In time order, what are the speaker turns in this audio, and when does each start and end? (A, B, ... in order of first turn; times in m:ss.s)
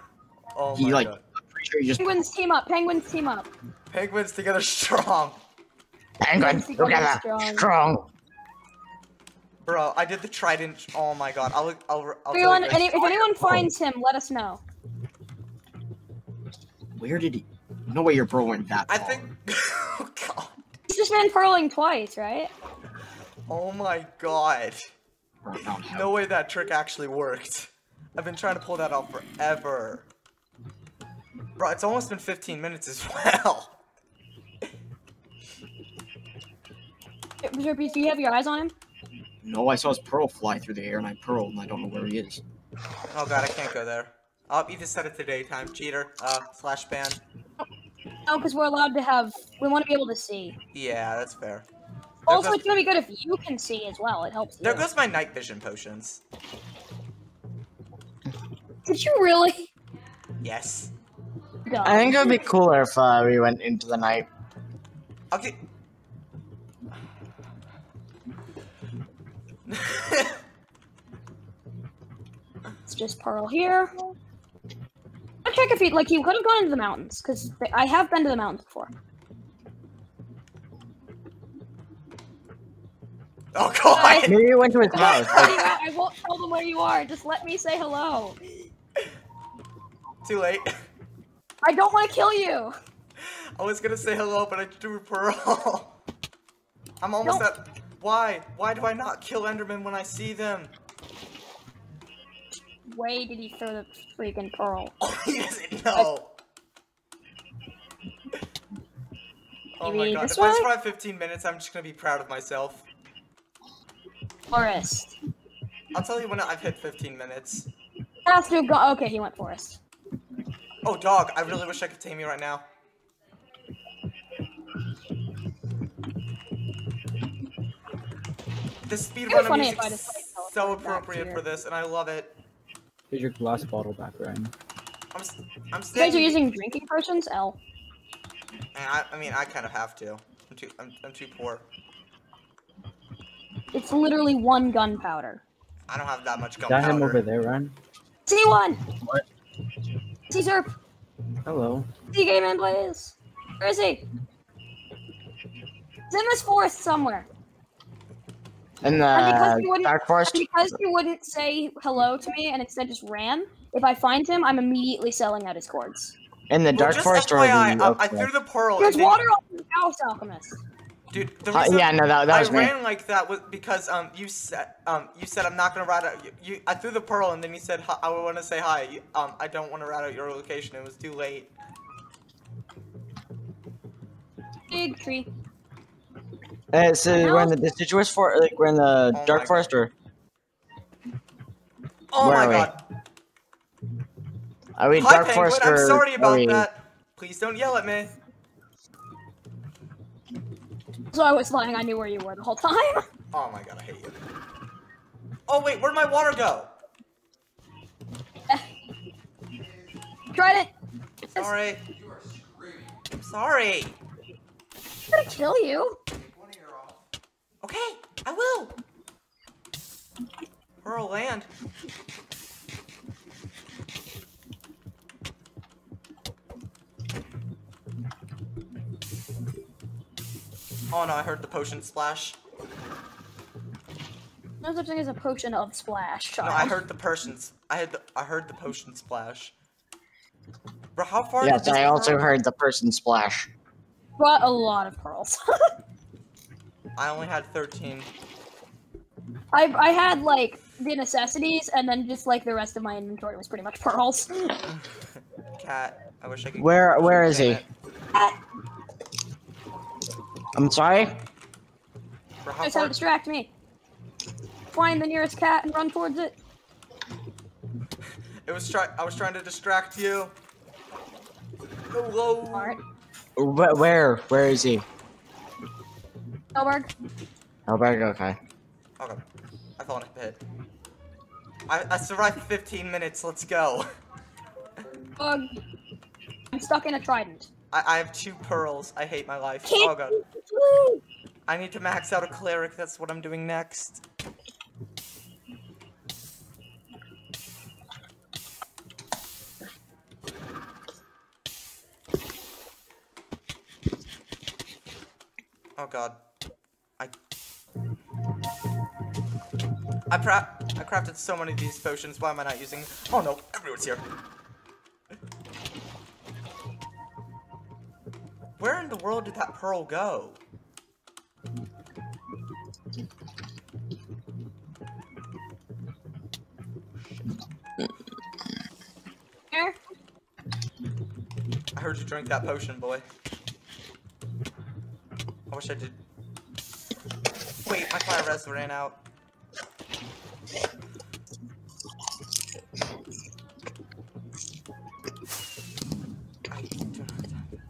0:00.5-0:01.2 A
0:00.8-0:02.2 B
0:02.0-0:03.5 C
0:03.9-0:05.4 A
0:06.2-0:08.1 D
0:06.4-0:07.6 C
0:09.6-0:13.6 A
0:12.3-0:14.6 C
0:17.0-0:19.2 B
0:18.9-0:20.6 A
0:20.9-0:22.5 C
0:23.5-0:24.9 A
0:25.4-0:26.1 B
0:25.9-0:30.1 A
0:31.6-0:33.7 A
0:37.4-0:38.7 C
0:39.4-0:42.4 B
0:43.1-0:47.2 A
0:48.3-0:50.6 C
0:50.7-0:51.6 A
0:52.2-0:52.6 A
0:52.3-0:54.9 C
0:54.6-0:56.2 A
0:58.8-0:59.7 C
1:00.4-1:00.9 A
1:01.6-1:02.5 C
1:01.8-1:04.3 D
1:05.3-1:05.6 A
1:09.7-1:10.4 A
1:12.9-1:13.9 C
1:15.4-1:18.9 C
1:23.5-1:24.4 A
1:23.9-1:24.3 C
1:24.3-1:25.6 D
1:24.9-1:28.4 C
1:24.9-1:25.7 A
1:30.2-1:30.7 A
1:31.6-1:32.7 C
1:33.2-1:35.9 A
1:37.0-1:40.7 A
1:42.9-1:44.9 C
1:45.0-1:46.3 A
1:49.8-1:52.8 A
1:49.8-1:50.7 C
1:54.5-1:55.2 C
1:55.9-1:57.7 A
1:58.2-1:59.8 C
2:00.8-2:02.6 A
2:08.9-2:12.4 A
2:09.3-2:11.4 C
2:13.1-2:14.5 E
2:15.1-2:16.4 A
2:15.9-2:17.6 C
2:18.7-2:21.6 A
2:23.7-2:25.4 C
2:25.9-2:27.2 A
2:26.7-2:27.7 E
2:28.3-2:28.8 C
2:30.3-2:30.7 C
2:31.4-2:31.9 E
2:32.1-2:34.0 C
2:36.1-2:37.3 C
2:38.8-2:40.5 D
2:39.1-2:46.1 C
2:46.5-2:48.3 D
2:46.7-2:49.2 A
2:48.8-2:50.6 C
2:51.1-3:01.5 A
2:51.5-2:52.7 D
3:04.7-3:05.3 C
3:06.7-3:09.9 D
3:07.1-3:07.5 C
3:09.1-3:09.7 A
3:12.1-3:12.8 A
3:12.2-3:12.7 D
3:14.8-3:16.7 D
3:14.9-3:18.1 A
3:21.1-3:23.1 C
3:23.3-3:24.1 A
3:25.5-3:26.7 A
3:30.3-3:30.7 C
3:31.4-3:31.8 A
3:33.2-3:34.0 A
3:35.1-3:36.0 C
3:37.6-3:38.8 A
3:40.8-3:41.5 A
3:50.9-3:52.4 A
3:54.6-3:56.8 C
3:56.4-3:59.5 A
4:00.9-4:02.1 A
4:01.4-4:03.5 D
4:01.6-4:02.2 C
4:04.2-4:05.7 C
4:07.0-4:08.1 A
4:09.5-4:14.6 C
4:14.7-4:15.0 A
4:15.6-4:17.6 A
4:16.6-4:17.6 D
4:20.5-4:21.2 D
4:22.4-4:22.9 A
4:22.6-4:23.5 C
4:24.7-4:26.4 C
4:28.4-4:30.3 A
4:31.9-4:32.8 A
4:32.5-4:32.8 C
4:33.4-4:34.8 D
4:36.6-4:36.9 C
4:37.7-4:38.4 D
4:39.8-4:40.4 A
4:41.7-4:43.9 A
4:45.2-4:45.5 C
4:46.5-4:47.5 C
4:47.7-4:50.2 A
4:49.6-4:51.0 C
4:51.5-4:54.0 A
5:05.8-5:06.2 A
5:10.1-5:14.0 A
5:18.6-5:20.4 A
5:31.7-5:33.0 A
5:35.5-5:36.0 A
5:37.6-5:39.0 A
5:46.5-5:47.6 A